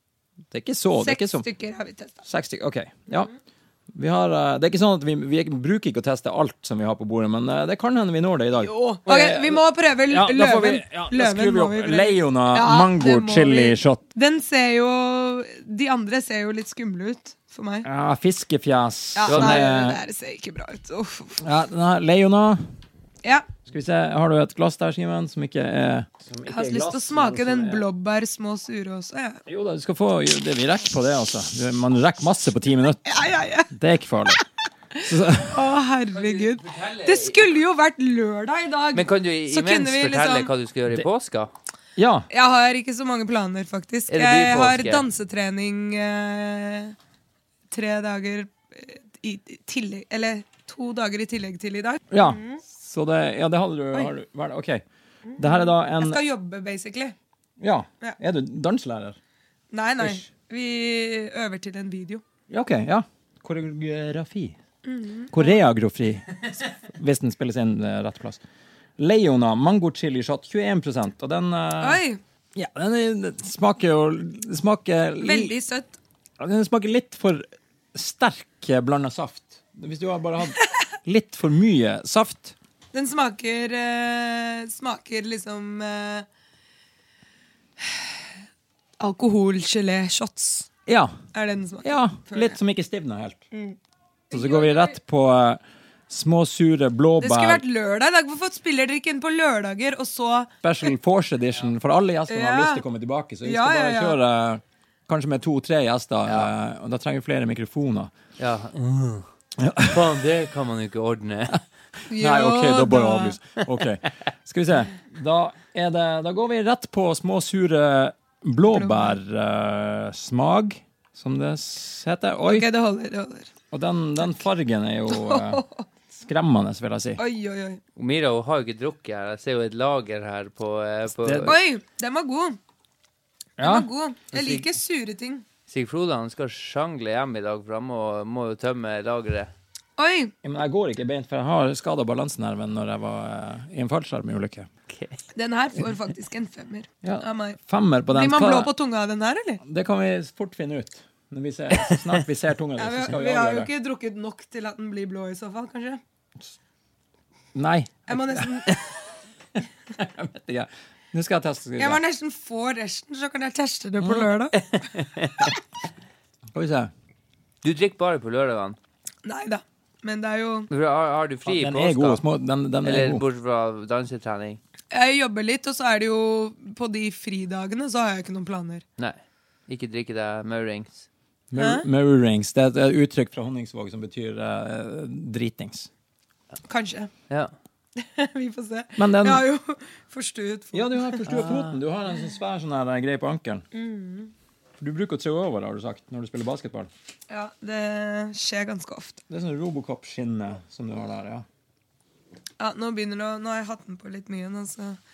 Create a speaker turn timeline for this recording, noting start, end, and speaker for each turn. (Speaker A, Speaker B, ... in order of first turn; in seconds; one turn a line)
Speaker A: 0.5-1.4
Speaker B: 1.0-2.2
Speaker A: 2.3-3.3
Speaker A: 3.9-14.0
Speaker B: 8.6-17.9
Speaker A: 17.9-20.0
Speaker B: 19.2-21.4
Speaker C: 19.3-19.6
Speaker A: 21.4-22.6
Speaker B: 23.2-23.5
Speaker A: 23.6-27.9
Speaker B: 26.5-29.4
Speaker A: 29.5-33.1
Speaker B: 33.1-33.7
Speaker A: 33.7-34.4
Speaker B: 35.0-40.5
Speaker A: 35.0-35.7
Speaker C: 36.1-37.5
Speaker C: 38.9-41.5
Speaker A: 42.0-42.3
Speaker B: 42.3-47.0
Speaker C: 44.1-45.0
Speaker B: 47.7-52.6
Speaker A: 52.1-54.8
Speaker B: 55.3-57.1
Speaker A: 55.4-56.2
Speaker A: 57.6-59.2
Speaker B: 59.7-62.2
Speaker A: 62.5-64.6
Speaker B: 64.8-65.6
Speaker A: 65.3-68.4
Speaker A: 69.0-72.0
Speaker B: 71.8-72.2
Speaker A: 72.5-75.5
Speaker B: 75.2-76.0
Speaker A: 76.4-82.5
Speaker B: 82.9-86.3
Speaker B: 89.0-90.7
Speaker A: 90.9-91.2
Speaker B: 91.3-92.6
Speaker A: 91.8-93.5
Speaker B: 93.5-93.8
Speaker A: 94.3-97.6
Speaker B: 94.3-94.9
Speaker B: 97.2-100.5
Speaker A: 100.6-108.1
Speaker B: 102.3-102.8
Speaker B: 103.4-104.2
Speaker C: 108.4-109.3
Speaker A: 109.6-110.0
Speaker C: 109.8-111.6
Speaker B: 112.1-113.4
Speaker A: 112.1-122.7
Speaker B: 118.7-119.2
Speaker B: 122.5-123.5
Speaker A: 123.7-125.7
Speaker B: 125.1-125.9
Speaker A: 126.2-127.2
Speaker B: 127.2-127.8
Speaker C: 128.0-131.6
Speaker A: 131.2-131.6
Speaker B: 131.4-132.6
Speaker B: 133.6-135.4
Speaker A: 133.6-133.9
Speaker C: 134.3-134.7
Speaker C: 135.7-139.5
Speaker B: 140.0-140.3
Speaker A: 140.4-144.7
Speaker C: 144.9-145.2
Speaker B: 145.3-149.6
Speaker A: 147.0-148.7
Speaker A: 149.6-153.7
Speaker C: 151.8-152.1
Speaker B: 152.8-156.0
Speaker A: 157.5-158.8
Speaker B: 158.1-158.8
Speaker A: 160.0-162.0
Speaker B: 161.8-164.6
Speaker A: 164.0-164.3
Speaker C: 164.6-165.5
Speaker A: 166.5-166.9
Speaker C: 167.6-168.8
Speaker B: 169.2-170.7
Speaker C: 170.7-172.2
Speaker A: 171.5-173.2
Speaker C: 172.8-174.6
Speaker B: 174.9-178.8
Speaker C: 179.0-181.1
Speaker A: 181.5-185.9
Speaker B: 181.6-181.8
Speaker B: 186.7-187.1
Speaker B: 188.0-191.7
Speaker A: 189.0-189.4
Speaker A: 190.7-193.7
Speaker B: 193.7-194.3
Speaker A: 194.8-196.9
Speaker B: 197.3-199.2
Speaker A: 199.3-201.5
Speaker B: 202.6-205.0